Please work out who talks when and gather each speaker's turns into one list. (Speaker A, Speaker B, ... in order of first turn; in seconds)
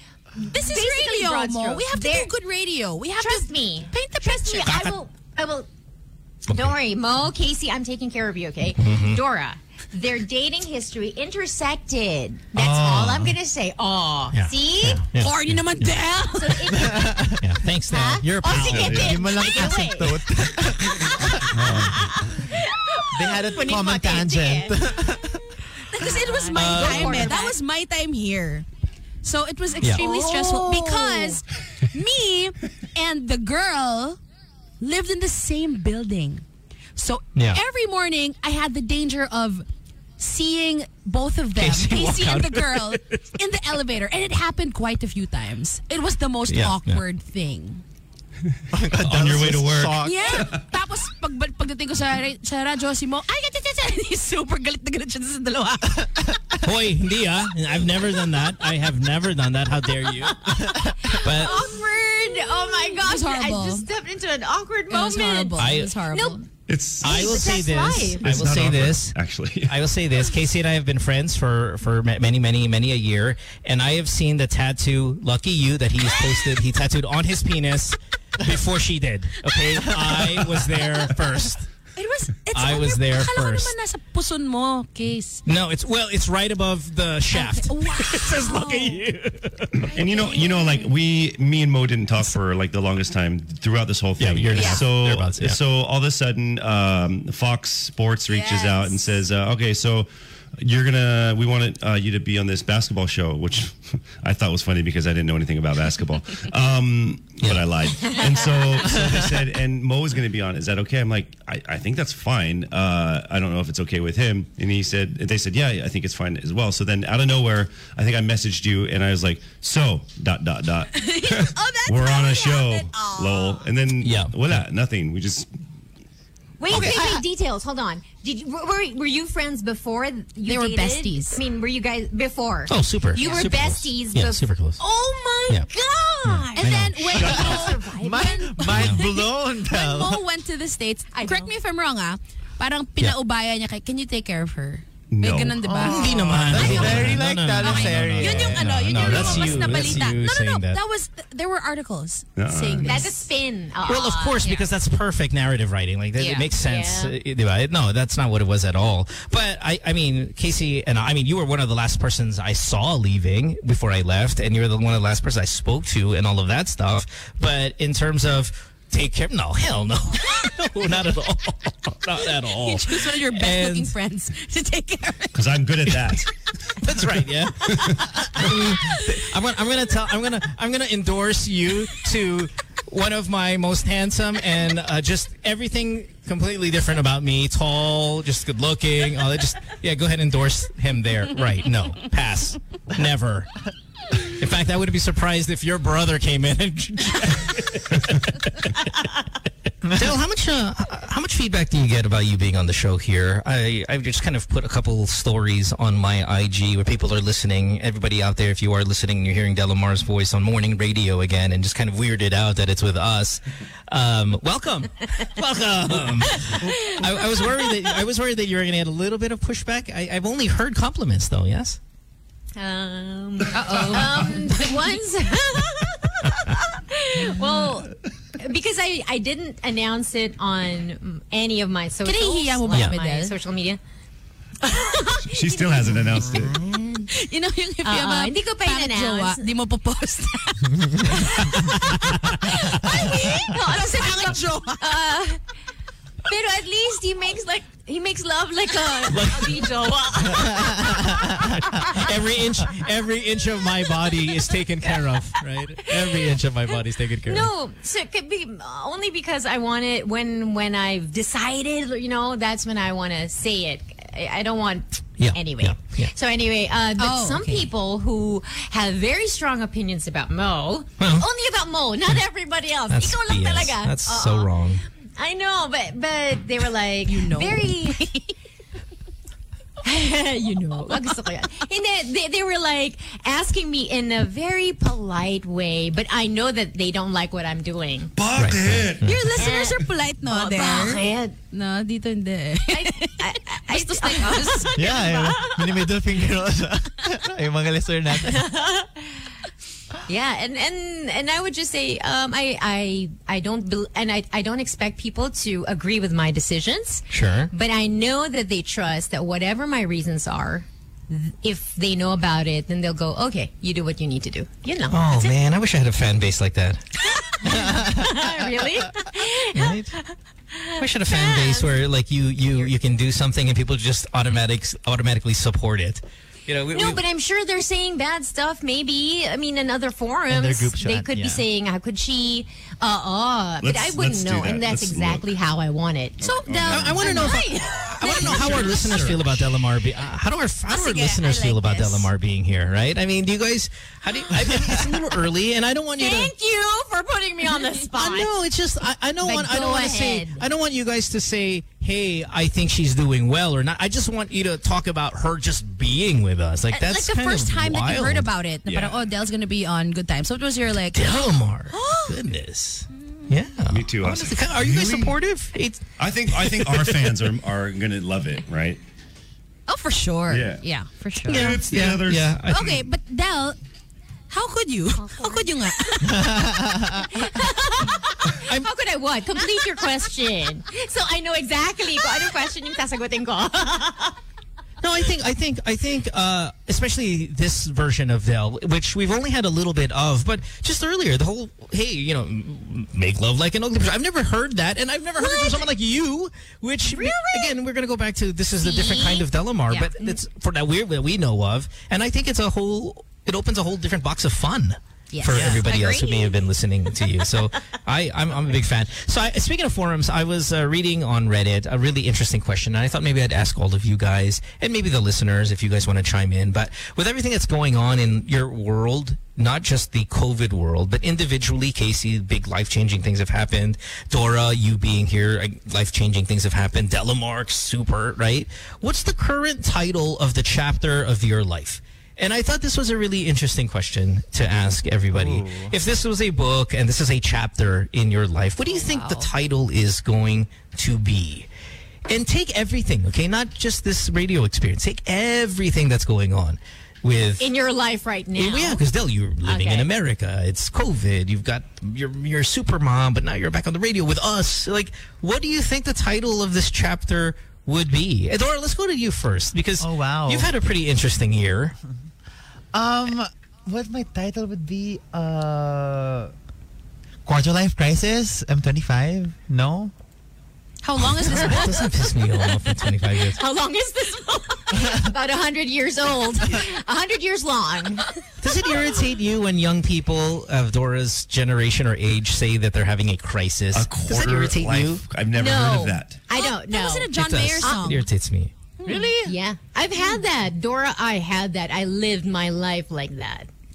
Speaker A: 0.4-2.3, 3.2-5.7, 6.5-15.0, 16.3-17.3, 17.9-20.3, 20.9-24.8, 25.9-27.6, 29.9-31.4, 60.3-66.4, 67.0-68.3, 126.6-138.4, 141.1-141.5, 152.8-154.5, 156.6-157.2, 222.6-233.8, 234.6-237.1, 237.8-239.5, 242.5-245.4, 246.2-252.1, 255.8-256.3, 257.2-274.5, 275.2-278.2, 279.8-288.1, 289.4-291.4, 292.7-295.9, 298.2-299.2, 300.1-315.3, 317.1-321.7, 326.7-336.2, 337.0-338.2, 346.0-348.3, 349.2-350.4, 375.0-375.4, 377.2-384.2, 396.9-397.5, 398.7-399.2, 405.7-406.0, 447.4-448.8, 449.4-449.9, 473.4-478.1, 485.3-487.8, 488.9-493.5
Speaker B: 0.4-4.8, 15.2-16.7, 25.9-28.6, 29.2-34.2, 34.8-36.4, 37.0-39.6, 40.2-47.8, 50.0-56.3, 62.8-63.9, 64.9-66.5, 82.0-85.4, 87.3-89.0, 89.8-90.9, 94.5-94.8, 98.3-99.0, 120.9-123.6, 130.4-131.4, 133.2-133.5, 136.6-153.2, 156.2-156.5, 172.4-175.4, 178.7-179.1, 223.5-224.9, 232.0-233.3, 237.1-245.1, 267.0-267.7, 277.1-278.2, 289.0-295.0, 336.2-339.2, 340.7-342.1, 356.7-362.2, 369.7-371.6, 372.5-373.6, 374.3-378.0, 399.7-400.1, 405.1-406.2, 470.8-472.1, 486.3-488.1, 488.8-489.2
Speaker C: 4.6-5.0, 6.5-6.7, 8.7-9.2, 14.3-16.0, 17.4-19.2, 26.5-27.3, 37.4-37.6, 41.5-43.2, 46.5-47.0, 56.6-61.6, 65.5-66.0, 67.0-69.2, 69.7-81.7, 82.5-83.7, 85.5-89.9, 94.2-95.6, 124.0-124.6, 132.7-134.8, 136.2-137.2, 138.7-139.0, 145.8-150.8, 153.8-173.9, 176.8-193.5, 194.2-199.1, 199.9-221.8, 232.7-232.9, 249.1-249.7, 251.8-257.5, 265.2-266.1, 271.0-271.3, 272.9-274.8, 288.3-289.3, 307.1-307.5, 314.9-316.8, 319.5-319.9, 320.8-327.0, 336.7-346.3, 347.9-358.3, 360.9-367.2, 371.3-372.8, 384.8-441.5, 442.1-447.5, 448.3-461.8, 471.0-473.4, 478.4-485.0, 487.1-489.3
Speaker D: 12.6-13.3, 16.7-17.5, 18.1-21.8, 23.1-25.4, 48.7-50.5, 126.7-127.2, 137.2-140.2, 145.6-149.5, 250.4-251.1, 294.8-298.5, 330.3-331.4, 376.0-377.1, 435.1-435.7, 459.8-460.5, 462.7-466.3, 467.2-469.9
Speaker E: 18.6-19.2, 21.5-22.2, 49.0-50.6, 66.7-67.4, 68.2-69.8, 89.8-125.5, 145.1-145.7, 149.0-149.9, 152.4-153.1, 175.3-176.3, 235.3-236.6, 288.1-289.1, 333.6-335.3, 336.2-337.3, 338.0-339.2, 358.7-359.0, 363.7-365.1, 366.0-368.8, 370.3-370.6, 371.2-372.4, 483.7-486.2